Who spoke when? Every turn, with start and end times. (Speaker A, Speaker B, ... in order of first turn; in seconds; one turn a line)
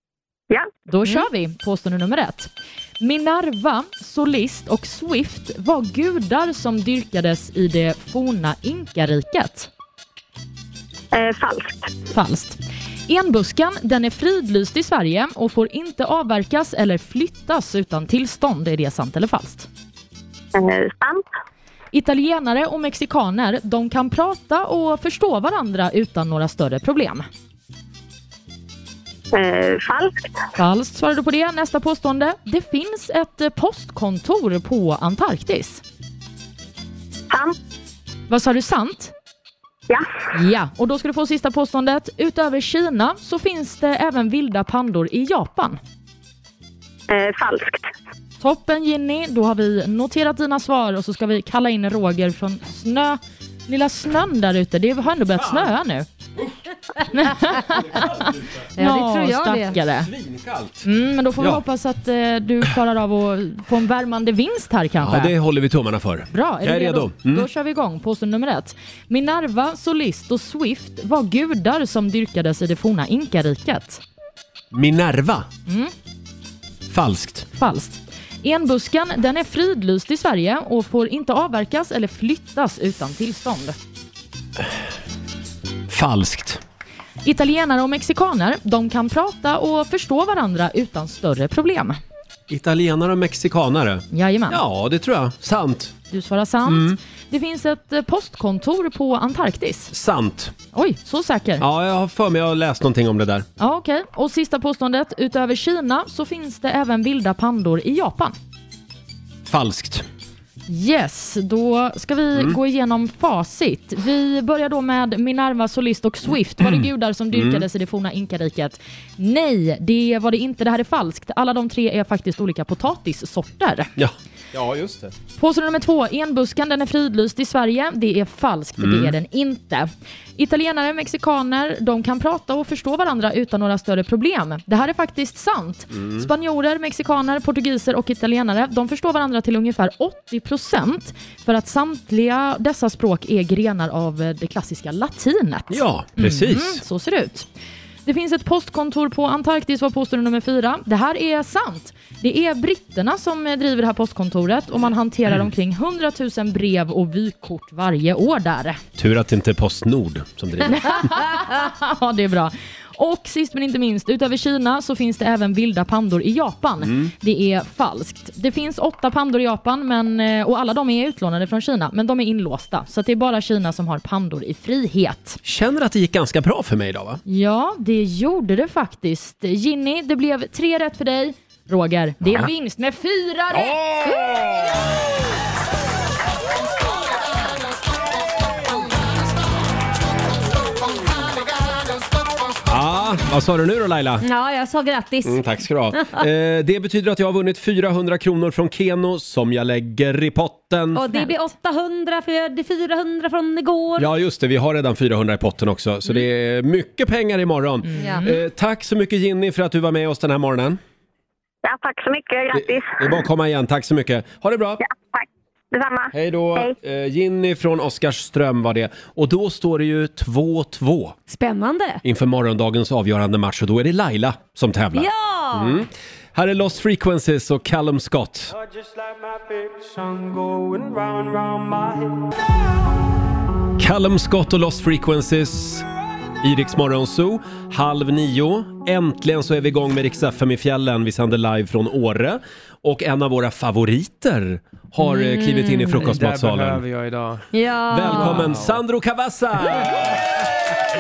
Speaker A: 0.9-9.7
Speaker B: 11.1-11.9
Speaker A: 12.1-19.7
Speaker B: 20.6-21.2
Speaker A: 21.9-27.3
Speaker B: 29.3-30.3
Speaker A: 30.6-35.8
Speaker A: 38.3-39.1
Speaker A: 40.3-45.8
Speaker B: 47.1-47.9
Speaker A: 48.4-56.1
Speaker C: 55.4-55.7
Speaker A: 57.1-60.1
Speaker C: 57.9-58.7
Speaker D: 58.8-59.8
Speaker C: 59.8-60.9
Speaker A: 60.8-65.3
Speaker C: 65.0-67.5
Speaker A: 66.3-74.0
Speaker C: 74.7-75.5
Speaker A: 75.7-75.9
Speaker C: 76.9-77.5
Speaker A: 77.6-83.8
Speaker C: 85.9-86.6
Speaker A: 87.2-92.0
Speaker C: 92.5-96.0
Speaker A: 94.1-94.6
Speaker A: 96.1-99.9
Speaker C: 96.7-97.0
Speaker C: 99.9-100.5
Speaker A: 100.7-101.6
Speaker C: 101.6-103.5
Speaker A: 103.6-108.3
Speaker C: 109.5-110.1
Speaker A: 110.7-123.9
Speaker C: 116.6-117.7
Speaker C: 124.0-125.1
Speaker A: 125.4-147.5
Speaker C: 128.8-129.2
Speaker C: 135.9-136.3
Speaker C: 145.7-146.8
Speaker A: 148.1-158.8
Speaker C: 159.0-161.1
Speaker A: 160.7-175.4
Speaker C: 166.8-167.1
Speaker C: 175.4-177.2
Speaker A: 177.3-184.2
Speaker C: 182.2-182.5
Speaker C: 183.5-184.9
Speaker C: 192.7-194.2
Speaker D: 194.2-196.2
Speaker C: 195.2-201.1
Speaker D: 200.9-204.1
Speaker C: 204.0-210.8
Speaker A: 207.9-208.4
Speaker D: 208.0-208.3
Speaker B: 211.6-213.0
Speaker C: 212.5-214.8
Speaker B: 214.8-216.7
Speaker C: 216.1-221.2
Speaker D: 221.3-222.0
Speaker C: 222.0-228.6
Speaker D: 224.9-225.8
Speaker C: 233.8-235.9
Speaker C: 236.4-246.8
Speaker D: 245.0-246.2
Speaker E: 246.0-247.5
Speaker D: 247.5-248.6
Speaker C: 247.9-250.4
Speaker E: 248.0-248.8